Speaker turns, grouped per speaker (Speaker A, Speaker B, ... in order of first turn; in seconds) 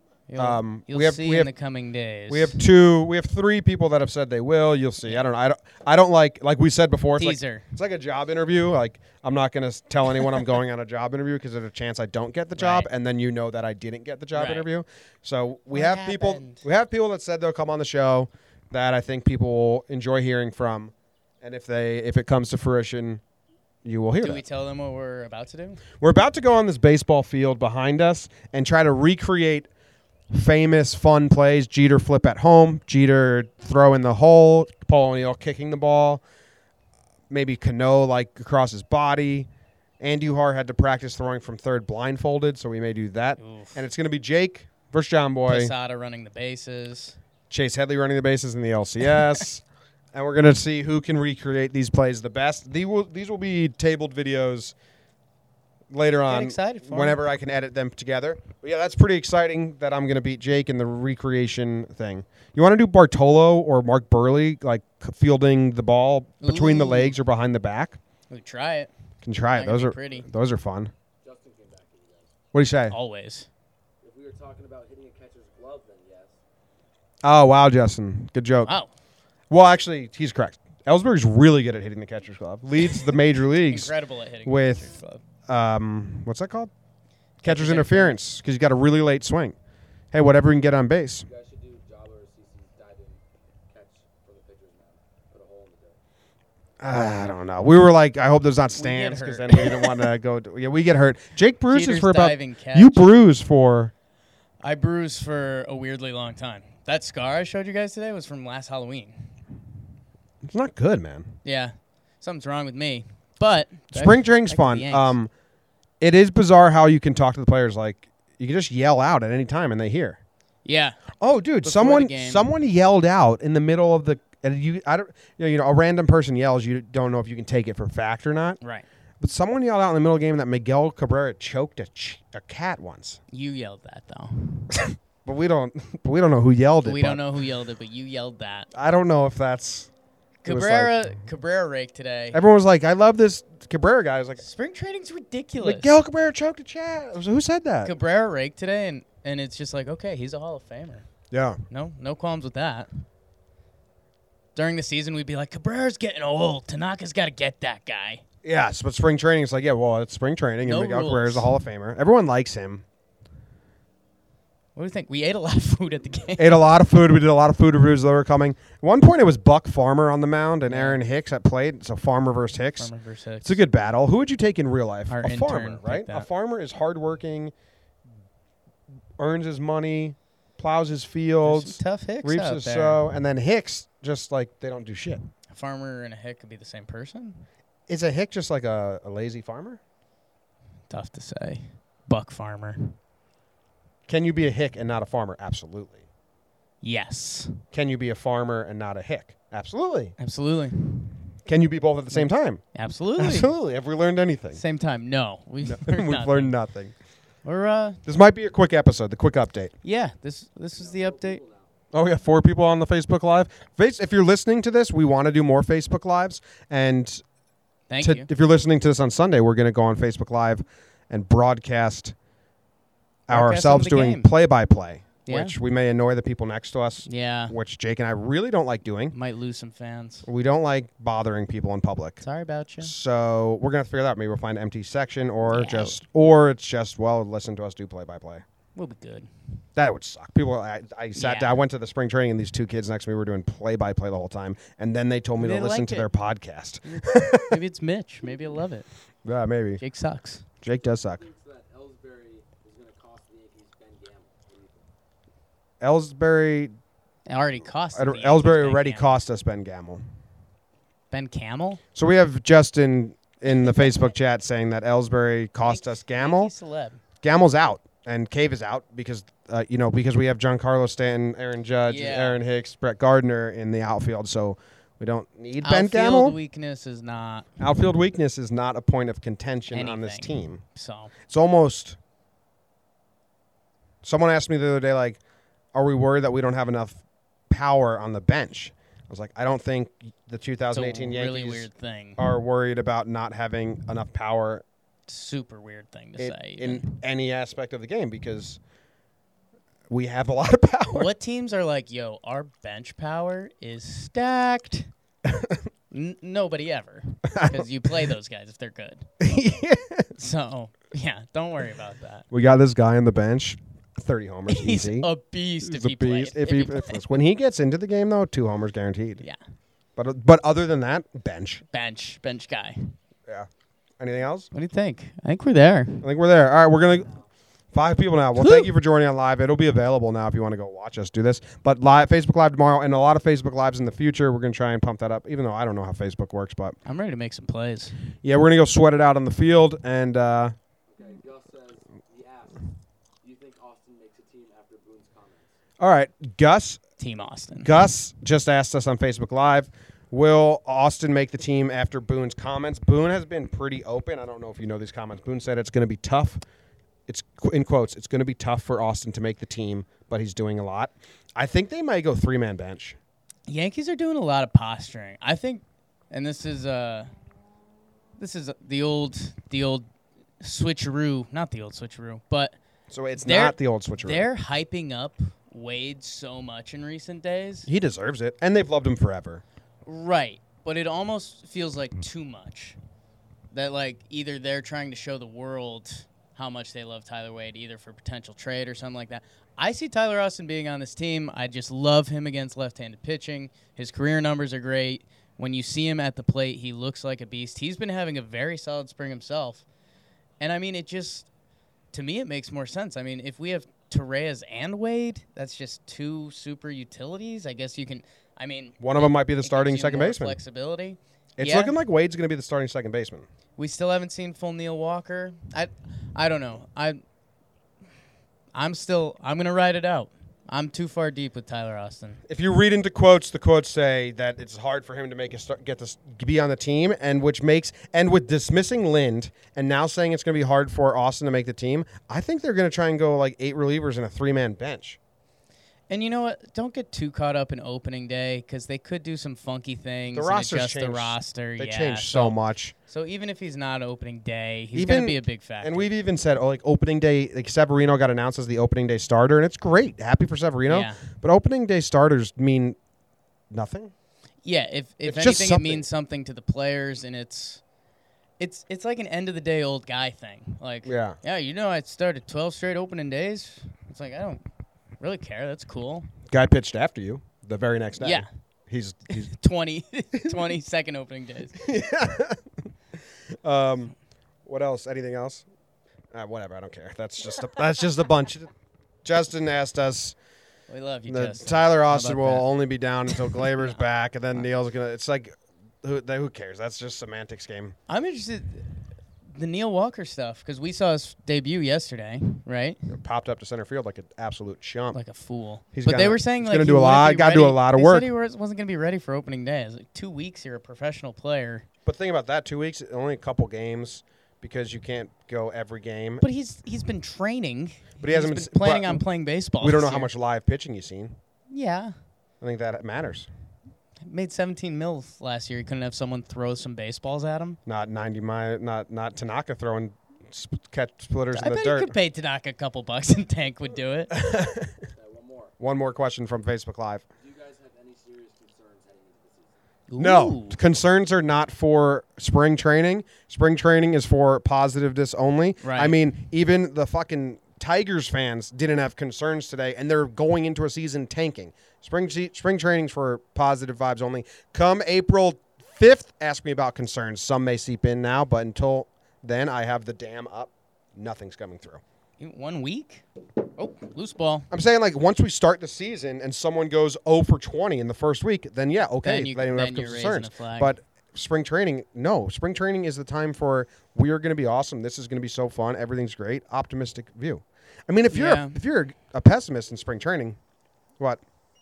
Speaker A: 0.3-2.6, 7.2-7.7, 12.6-12.9, 14.3-14.7, 15.7-16.7, 24.2-25.8, 43.4-43.8, 45.5-47.2, 49.1-49.4, 56.3-57.2, 66.4-67.2, 68.3-68.9, 69.5-70.3, 72.9-73.5, 78.7-78.9, 82.9-85.2, 87.4-88.2, 98.7-100.1, 101.7-103.3, 104.6-109.4, 111.4-115.2, 120.7-122.5, 133.3-134.7, 136.8-138.7, 140.4-142.4, 144.4-146.0, 147.8-151.1, 151.7-152.9, 154.6-158.2, 160.6-161.5, 164.8-166.6, 170.7-171.0, 172.8-173.6, 175.1-176.3, 181.4-183.1, 185.5-187.4, 190.9-192.9, 196.8-197.6, 200.2-201.2, 202.2-203.5, 204.6-206.5, 207.4-208.0, 209.8-211.4, 217.9-218.3, 223.3-224.3, 225.3-225.6, 227.1-227.5, 229.1-230.3, 232.2-232.9, 235.5-236.0, 238.8-239.3, 241.2-241.6, 245.4-246.1, 246.8-248.9, 249.8-250.4, 257.3-259.1, 261.1-261.8, 263.5-264.1, 265.6-267.0, 271.9-272.4, 275.6-277.5, 279.7-281.1, 290.7-292.3, 295.1-296.9, 300.9-304.9, 305.9-309.1, 310.1-312.3, 314.5-317.0, 321.7-322.9, 324.5-326.0, 328.4-328.7, 336.9-338.0, 347.0-347.7, 363.5-367.1, 368.2-369.9, 370.4-372.6, 373.2-377.7, 379.9-382.8, 383.5-399.6, 400.4-401.3, 401.9-411.8, 413.6-417.0, 418.5-422.2, 435.9-445.9, 450.7-451.0, 454.4-457.6, 458.4-464.4, 465.0-466.1, 468.0-468.3, 469.1-471.6, 480.7-482.5, 483.2-483.8, 487.9-488.7, 489.3-492.9, 494.9-501.6, 506.2-510.1, 511.5-511.9, 514.0-517.6, 521.3-524.1, 529.9-530.6, 535.6-536.0, 552.2-554.5, 559.0-560.8, 568.1-568.6
Speaker B: 0.4-1.5, 2.3-23.2, 23.9-24.4, 26.0-29.7, 30.3-36.2, 37.3-39.5, 40.0-45.7, 47.5-54.8, 55.9-68.0, 69.2-70.9, 72.5-73.0, 77.2-78.8, 79.5-83.9, 84.4-84.9, 85.5-86.7, 87.4-89.6, 90.1-91.3, 96.8-103.9, 110.5-111.3, 113.9-115.3, 116.0-120.2, 121.2-128.6, 129.2-133.2, 134.9-137.2, 138.7-139.9, 140.5-141.1, 142.3-144.4, 145.6-147.9, 151.3-151.6, 158.4-162.8, 166.4-172.9, 173.4-177.5, 179.2-185.2, 187.9-189.8, 194.1-196.0, 197.7-200.1, 201.5-202.6, 203.2-204.6, 205.6-206.9, 208.1-209.7, 211.9-217.2, 218.0-222.2, 223.3-229.1, 230.2-232.2, 232.8-238.4, 239.8-247.6, 249.2-249.8, 250.6-251.3, 255.8-256.7, 257.9-260.0, 261.9-266.5, 267.2-276.4, 277.6-280.6, 281.3-282.0, 284.0-285.2, 285.7-294.6, 296.2-298.6, 299.9-301.1, 305.3-305.6, 307.3-307.7, 309.2-310.1, 312.3-319.2, 320.0-321.6, 324.0-324.5, 326.0-327.2, 327.7-336.8, 338.2-340.6, 345.8-346.8, 347.6-356.4, 357.1-363.0, 372.9-374.3, 377.7-379.4, 408.8-410.4, 411.4-413.3, 422.3-435.0, 440.1-442.7, 444.7-452.8, 453.5-453.9, 455.0-455.9, 460.9-461.2, 466.3-469.3, 471.6-472.4, 473.4-473.9, 474.5-475.4, 476.1-478.5, 479.1-480.2, 481.1-487.8, 492.9-495.0, 495.7-498.1, 501.9-506.2, 508.0-509.0, 509.6-511.2, 512.4-513.3, 517.7-521.9, 524.1-524.8, 525.6-527.0, 530.0-551.8, 554.5-570.4
Speaker C: 71.2-72.3, 74.0-76.3, 91.2-96.0, 210.8-211.7, 250.9-254.9, 340.9-345.5, 524.9-525.5, 527.2-529.6